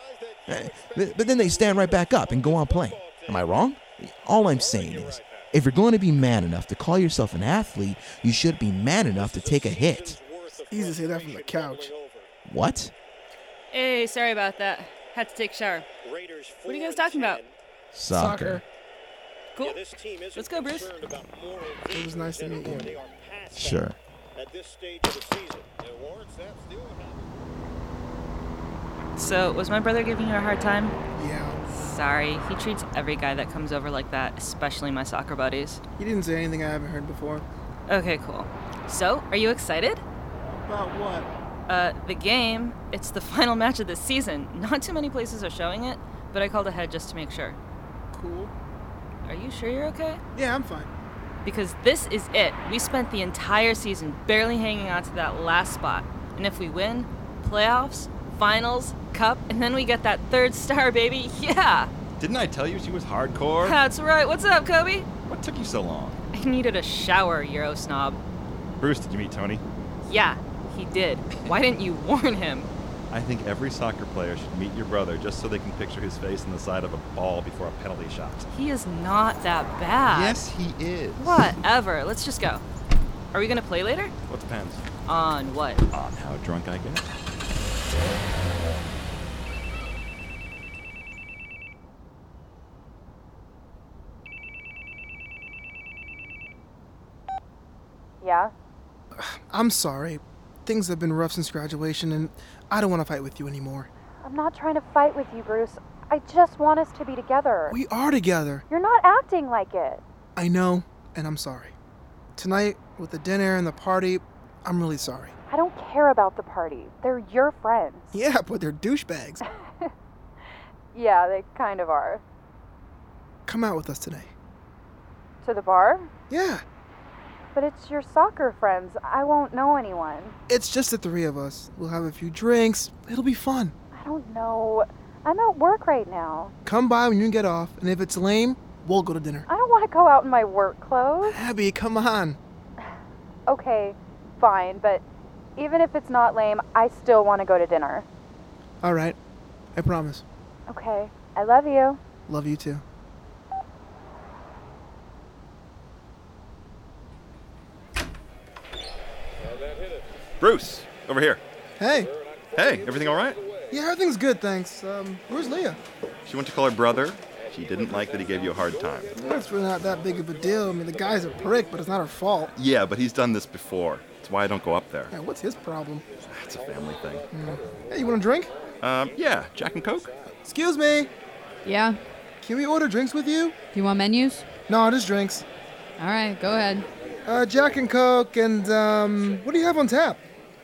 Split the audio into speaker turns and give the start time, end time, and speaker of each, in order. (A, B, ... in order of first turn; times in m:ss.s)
0:00.5-0:10.2 A
0:10.6-0:11.9 B
0:12.4-0:12.9 A
0:13.7-0:15.9 C
0:16.6-0:17.5 C
0:17.9-0:18.6 A
0:18.1-0:18.6 B
0:19.6-0:20.9 C
0:21.9-0:23.0 B
0:23.5-0:24.0 A
0:29.2-0:30.9 C
0:31.2-0:31.6 B
0:31.7-0:35.8 C
0:36.0-0:37.4 B
0:37.9-0:40.0 C
0:40.6-0:41.3 B
0:41.7-0:47.6 C
0:48.1-0:48.5 B
0:49.2-0:50.2 C
0:50.3-0:50.9 B
0:51.4-1:01.9 C
1:02.2-1:03.8 D
1:03.6-1:05.1 C
1:05.2-1:06.2 D
1:06.3-1:08.2 C
1:08.8-1:09.6 D
1:10.0-1:12.7 C
1:13.1-1:18.5 D
1:18.5-1:20.4 C
1:20.1-1:21.6 D
1:21.2-1:22.6 C
1:23.3-1:24.1 C
1:24.3-1:24.9 D
1:25.0-1:25.8 C
1:25.9-1:27.1 D
1:38.2-1:38.5 E
1:39.1-1:43.9 B
1:44.2-1:47.8 E
1:47.7-1:48.6 B
1:48.7-1:50.0 E
1:50.4-1:51.7 B
1:52.4-1:55.3 B
1:55.5-1:58.1 E
1:58.1-1:59.4 B
1:59.4-1:59.9 E
2:00.9-2:02.2 E
2:03.5-2:04.3 B
2:05.4-2:06.1 E
2:06.3-2:06.6 B
2:07.5-2:10.4 E
2:10.5-2:13.7 B
2:13.9-2:16.5 E
2:16.6-2:19.4 B
2:19.5-2:21.4 E
2:21.2-2:22.4 B
2:23.5-2:25.0 E
2:25.6-2:28.0 E
2:28.8-2:29.2 B
2:29.7-2:30.2 B
2:30.7-2:32.0 E
2:32.3-2:32.8 B
2:40.4-2:41.4 D
2:41.8-2:42.1 B
2:42.5-2:43.4 D
2:43.7-2:45.8 B
2:46.2-2:49.1 D
2:49.1-2:52.5 B
2:52.5-2:55.1 D
2:55.1-2:56.0 B
2:56.3-2:57.2 D
2:57.3-2:58.5 B
2:58.8-3:00.1 D
3:00.4-3:01.1 B
3:01.6-3:02.0 F
3:02.4-3:03.6 B
3:03.7-3:04.4 F
3:04.7-3:05.4 B
3:06.0-3:06.8 F
3:07.2-3:10.2 B